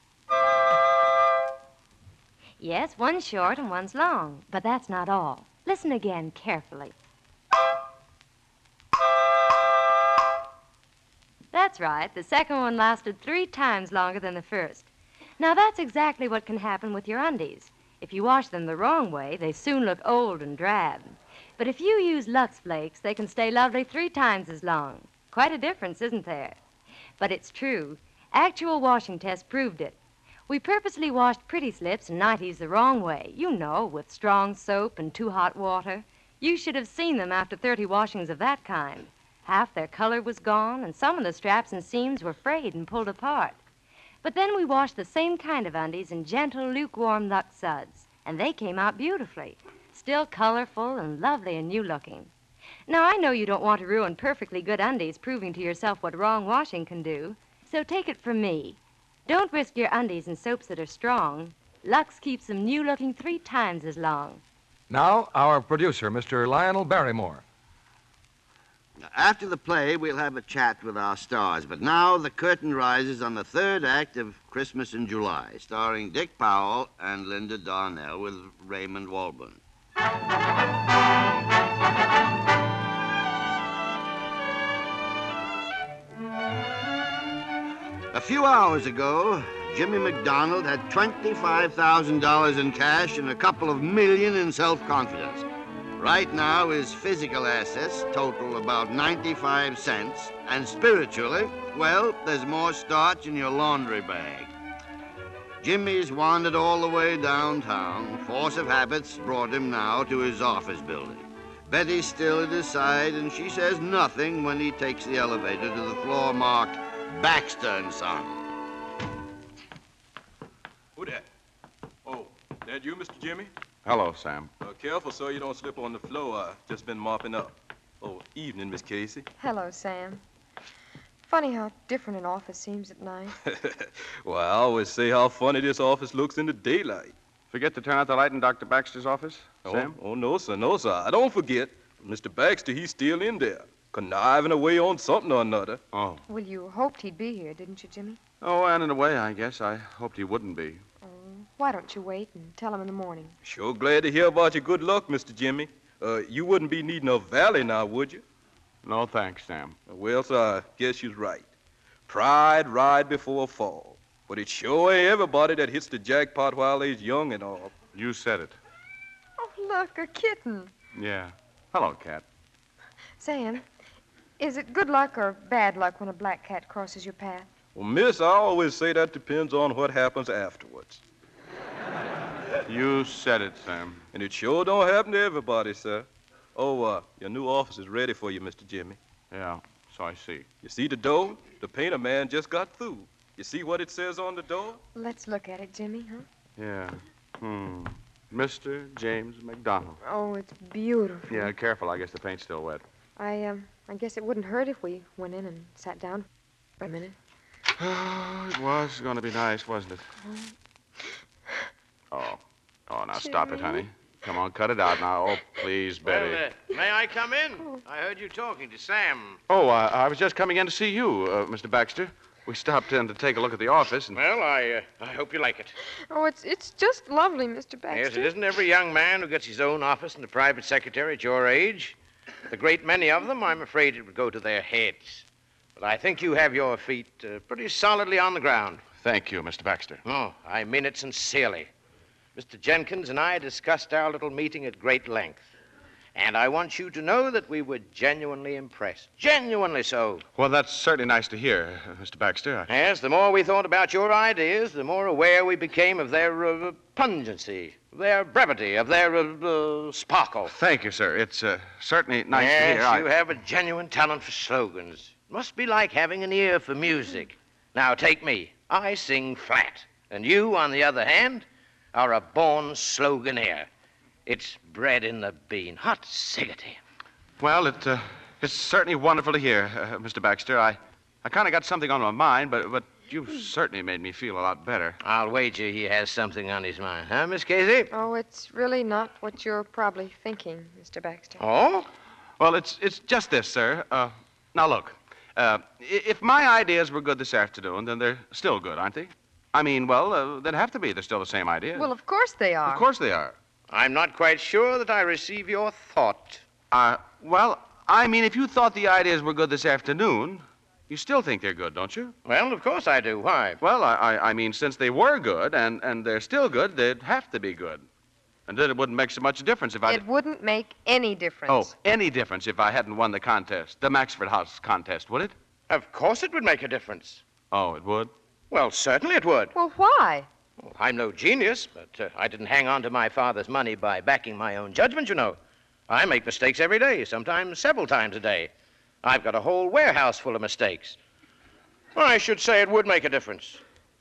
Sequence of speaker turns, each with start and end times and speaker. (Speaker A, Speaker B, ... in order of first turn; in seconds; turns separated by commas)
Speaker A: 2.6-6.9, Speaker A: 11.5-14.9, Speaker A: 15.4-26.6, Speaker A: 27.2-29.9, Speaker A: 30.5-43.6, Speaker A: 44.2-52.3, Speaker A: 52.9-64.4, Speaker B: 64.9-67.4, Speaker C: 69.0-79.6, Speaker C: 88.1-95.5, Speaker C: 96.0-104.5, Speaker C: 105.6-118.4, Speaker D: 121.0-121.2, Speaker D: 122.0-123.5, Speaker E: 123.8-124.5, Speaker D: 124.6-129.2, Speaker F: 129.4-130.2, Speaker F: 131.2-133.3, Speaker D: 133.4-137.1, Speaker E: 137.5-139.9, Speaker D: 139.6-145.8, Speaker E: 145.9-146.2, Speaker F: 146.3-148.2, Speaker E: 148.4-150.8, Speaker F: 151.0-153.3, Speaker D: 153.4-158.2, Speaker E: 158.8-159.8, Speaker D: 159.9-161.5, Speaker D: 162.1-167.7, Speaker E: 167.9-168.6, Speaker F: 169.4-170.7, Speaker E: 170.9-172.2, Speaker F: 173.2-173.6, Speaker F: 174.4-177.5, Speaker D: 177.7-181.0, Speaker E: 182.7-184.0, Speaker D: 184.1-189.0, Speaker E: 189.3-190.5, Speaker D: 190.6-194.8, Speaker F: 194.9-196.2, Speaker E: 196.6-200.0, Speaker F: 200.0-201.5, Speaker E: 201.3-202.8, Speaker F: 203.2-206.3, Speaker F: 206.8-207.1, Speaker E: 207.8-210.1, Speaker E: 212.1-216.4, Speaker F: 213.2-213.8, Speaker G: 216.0-219.4, Speaker E: 219.5-224.2, Speaker G: 224.1-225.7, Speaker F: 226.1-228.3, Speaker G: 227.9-231.9, Speaker G: 232.5-235.2, Speaker G: 235.8-238.8, Speaker E: 239.0-240.0, Speaker G: 240.0-241.7, Speaker G: 242.3-245.4, Speaker G: 246.1-250.2, Speaker E: 250.3-252.7, Speaker G: 252.7-260.5, Speaker E: 260.5-263.1, Speaker G: 262.3-273.7, Speaker G: 274.2-276.8, Speaker E: 277.4-285.0, Speaker G: 285.0-287.9, Speaker F: 287.9-291.4, Speaker G: 291.4-291.9, Speaker E: 292.4-301.9, Speaker F: 301.8-302.8, Speaker E: 302.6-303.3, Speaker G: 303.7-306.4, Speaker E: 306.7-312.1, Speaker G: 312.2-313.6, Speaker E: 313.6-317.8, Speaker E: 318.5-320.0, Speaker F: 319.9-321.7, Speaker E: 321.5-325.3, Speaker G: 325.7-327.2, Speaker E: 327.5-328.1, Speaker G: 328.5-329.5, Speaker F: 329.5-330.3, Speaker G: 330.6-335.4, Speaker G: 335.9-338.5, Speaker G: 339.0-341.0, Speaker G: 341.9-343.6